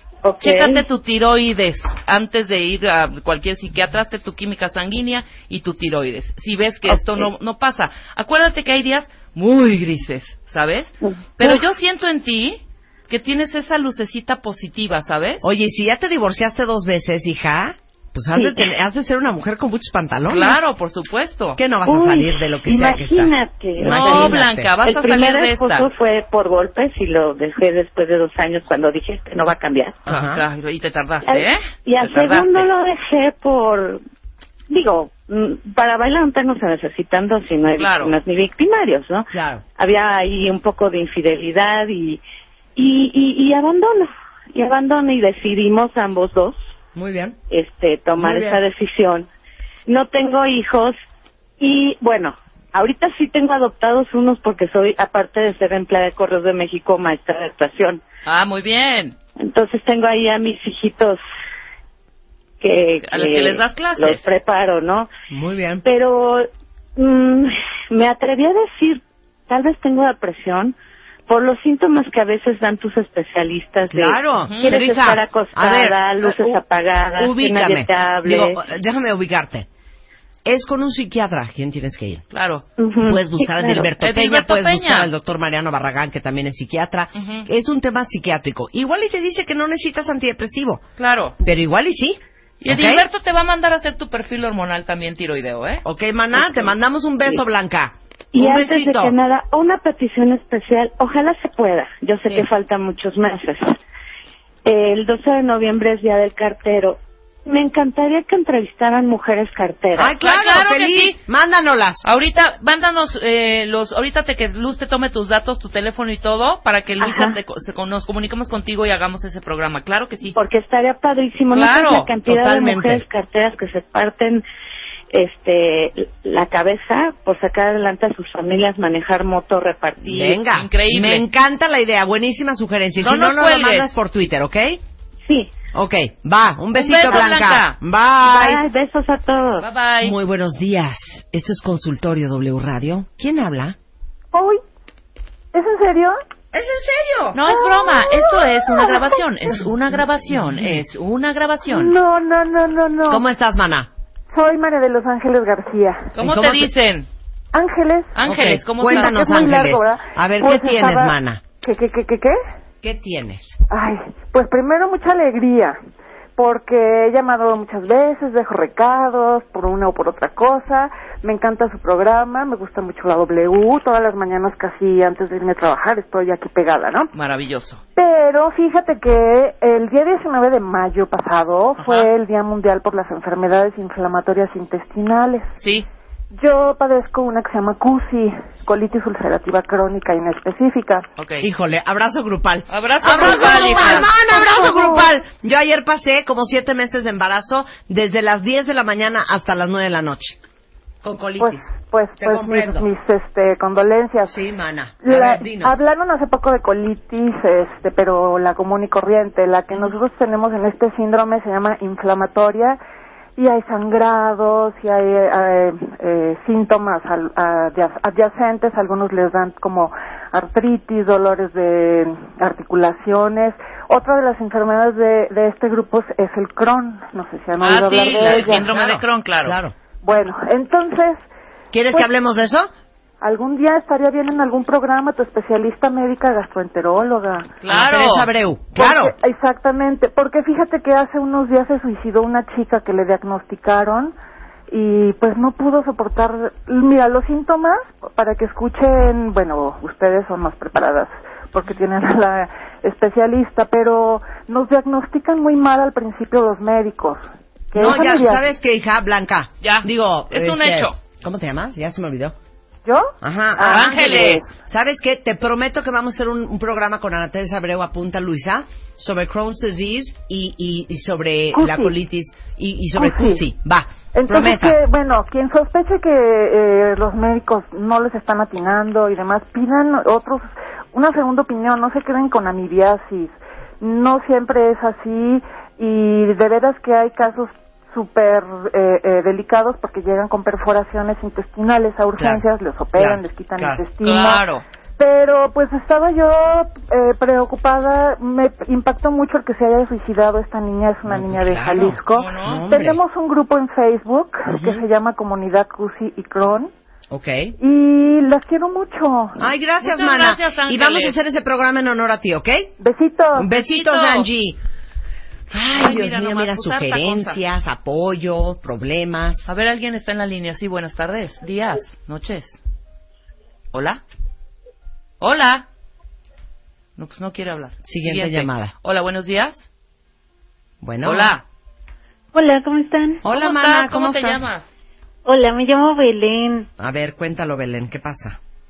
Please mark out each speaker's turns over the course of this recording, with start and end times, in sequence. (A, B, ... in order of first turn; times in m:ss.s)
0:00.2-0:00.8 A
0:00.4-0:15.4 B
0:06.8-0:07.3 A
0:15.4-0:20.6 C
0:18.3-0:18.7 A
0:20.3-0:21.6 B
0:21.6-0:24.7 C
0:21.8-0:30.0 A
0:23.8-0:25.9 B
0:30.0-0:30.4 C
0:30.1-0:32.7 B
0:31.2-0:34.0 A
0:34.7-0:42.2 A
0:37.7-0:38.2 B
0:39.3-0:39.6 C
0:42.8-0:46.6 A
0:46.9-0:47.4 C
0:47.5-0:49.3 A
0:48.2-0:48.6 C
0:49.9-0:51.0 A
0:51.6-0:58.0 A
0:58.2-0:59.2 B
0:59.4-1:01.2 A
1:02.6-1:05.1 A
1:03.0-1:04.3 B
1:05.3-1:05.8 C
1:05.8-1:10.7 A
1:11.3-1:18.6 A
1:13.9-1:16.6 C
1:14.4-1:14.8 B
1:17.1-1:19.7 C
1:20.4-1:22.2 C
1:22.3-1:22.6 B
1:22.8-1:23.9 A
1:23.0-1:30.8 C
1:24.0-1:25.1 B
1:27.1-1:27.5 B
1:31.0-1:31.4 B
1:31.4-1:33.0 C
1:32.6-1:35.8 B
1:35.8-1:39.1 C
1:36.3-1:36.7 B
1:38.3-1:43.8 A
1:44.6-1:50.1 A
1:50.0-1:52.0 C
1:50.0-1:51.2 B
1:52.0-2:00.4 B
1:57.0-1:57.4 A
2:00.3-2:04.4 A
2:01.5-2:02.1 B
2:02.2-2:03.0 C
2:05.1-2:10.4 A
2:10.0-2:14.8 C
2:10.4-2:11.2 B
2:13.0-2:14.0 B
2:15.3-2:15.5 A
2:15.7-2:18.6 C
2:16.7-2:17.8 B
2:18.2-2:19.7 A
2:19.6-2:20.2 B
2:20.0-2:23.8 C
2:24.3-2:24.6 D
2:25.5-2:26.1 D
2:26.5-2:27.4 C
2:27.3-2:31.9 B
2:27.4-2:29.0 D
2:30.3-2:30.8 C
2:31.7-2:33.2 D
2:33.1-2:33.9 C
2:34.3-2:36.1 D
2:36.1-2:37.1 B
2:36.2-2:36.7 C
2:37.5-2:38.1 D
2:38.1-2:39.2 B
2:38.2-2:41.4 C
2:38.8-2:42.4 D
2:42.8-2:43.6 C
2:43.7-2:45.8 D
2:46.4-2:57.1 D
2:57.1-2:57.8 B
2:58.0-3:05.5 D
3:01.8-3:02.1 B
3:05.6-3:05.9 B
3:06.3-3:11.0 D
3:11.2-3:11.5 B
3:11.4-3:20.4 C
3:12.7-3:14.1 B
3:13.5-3:15.1 D
3:21.0-3:22.9 C
3:21.4-3:24.3 D
3:24.3-3:25.8 C
3:25.0-3:32.8 D
3:33.4-3:48.7 D
3:47.6-3:49.6 B
3:48.1-3:49.7 C
3:50.0-3:51.2 D
3:51.7-3:52.7 C
3:53.2-3:57.5 D
3:57.6-3:58.3 B
3:57.7-3:59.1 C
3:58.7-4:04.1 D
4:04.7-4:18.4 D
4:17.7-4:22.3 C
4:19.6-4:21.0 B
4:22.8-4:24.5 D
4:23.2-4:34.8 C
4:23.6-4:24.4 B
4:31.5-4:31.9 D
4:33.0-4:33.4 D
4:34.1-4:54.4 D
4:52.2-4:53.8 C
4:54.0-4:54.6 B
4:55.0-5:06.7 D
5:01.0-5:03.0 C
5:02.1-5:02.6 B
5:04.5-5:04.8 C
5:07.1-5:07.6 C
5:07.6-5:09.5 D
5:09.4-5:12.7 C
5:09.8-5:11.2 B
5:12.8-5:13.5 D
5:13.3-5:14.6 C
5:13.5-5:14.3 B
5:15.5-5:19.5 C
5:15.7-5:17.4 B
5:19.5-5:22.6 B
5:23.7-5:24.0 B
5:25.2-5:25.6 B
5:27.0-5:29.7 B
5:27.8-5:28.7 C
5:30.8-5:31.3 C
5:31.0-5:31.4 B
5:32.3-5:33.2 E
5:33.2-5:34.5 C
5:33.2-5:34.7 B
5:35.2-5:36.7 E
5:36.8-5:38.4 C